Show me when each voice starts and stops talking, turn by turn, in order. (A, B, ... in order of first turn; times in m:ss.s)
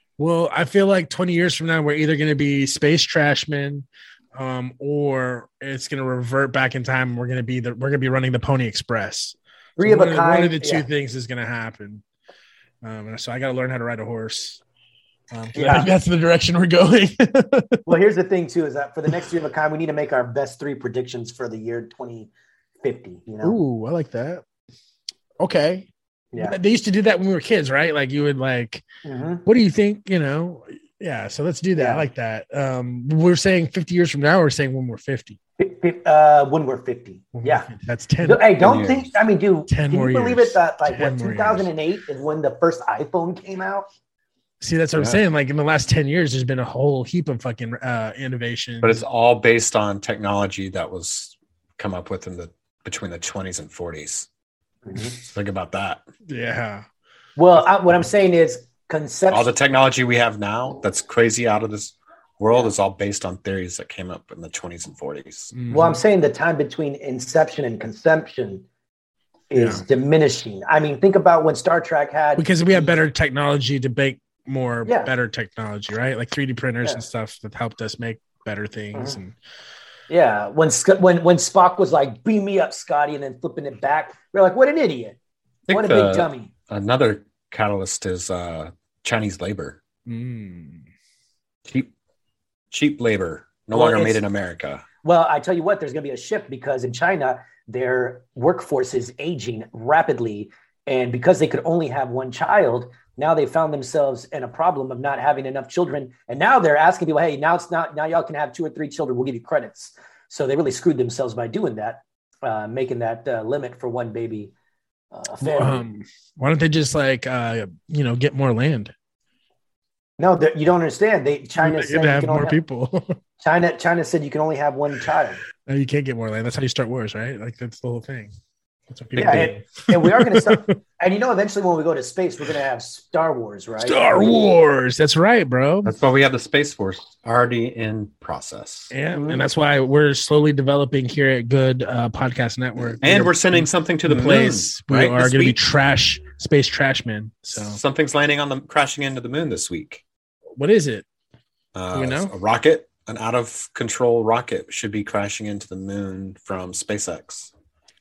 0:00.2-0:12.0 A
0:09.8-0:10.8 B
0:12.8-0:14.6 A
0:15.3-0:17.8 A
0:15.5-0:15.9 B
0:17.8-0:22.3 B
0:22.8-0:23.6 B
0:23.4-0:24.4 A
0:25.4-0:28.8 A
0:29.0-0:29.4 B
0:29.4-0:35.4 A
0:31.7-0:32.0 B
0:35.6-0:37.7 B
0:37.3-0:38.5 A
0:38.2-0:43.9 B
0:38.6-0:39.1 C
0:39.7-0:41.7 A
0:44.6-0:49.0 A
0:48.8-0:54.3 C
0:54.9-0:55.1 B
0:55.1-0:56.0 C
0:56.3-0:56.8 A
0:57.4-0:59.5 B
0:59.3-1:05.5 C
1:05.5-1:06.0 A
1:05.7-1:08.6 B
1:09.5-1:13.0 B
1:09.6-1:09.8 A
1:12.4-1:19.4 A
1:14.8-1:15.1 B
1:18.9-1:19.2 B
1:20.1-1:25.2 B
1:25.7-1:29.8 C
1:25.7-1:26.5 B
1:30.1-1:30.8 A
1:32.7-1:34.8 C
1:33.7-1:34.2 B
1:35.0-1:54.5 B
1:55.1-1:55.8 B
1:55.4-1:58.9 A
2:00.2-2:02.6 B
2:01.6-2:03.1 A
2:03.4-2:05.4 B
2:05.6-2:08.3 A
2:08.9-2:10.6 A
2:09.2-2:14.3 B
2:13.8-2:15.9 A
2:15.8-2:18.9 C
2:18.9-2:27.8 A
2:19.1-2:19.4 B
2:23.0-2:25.6 C
2:27.5-2:30.0 C
2:30.6-2:31.0 A
2:31.7-2:37.5 C
2:31.9-2:32.3 A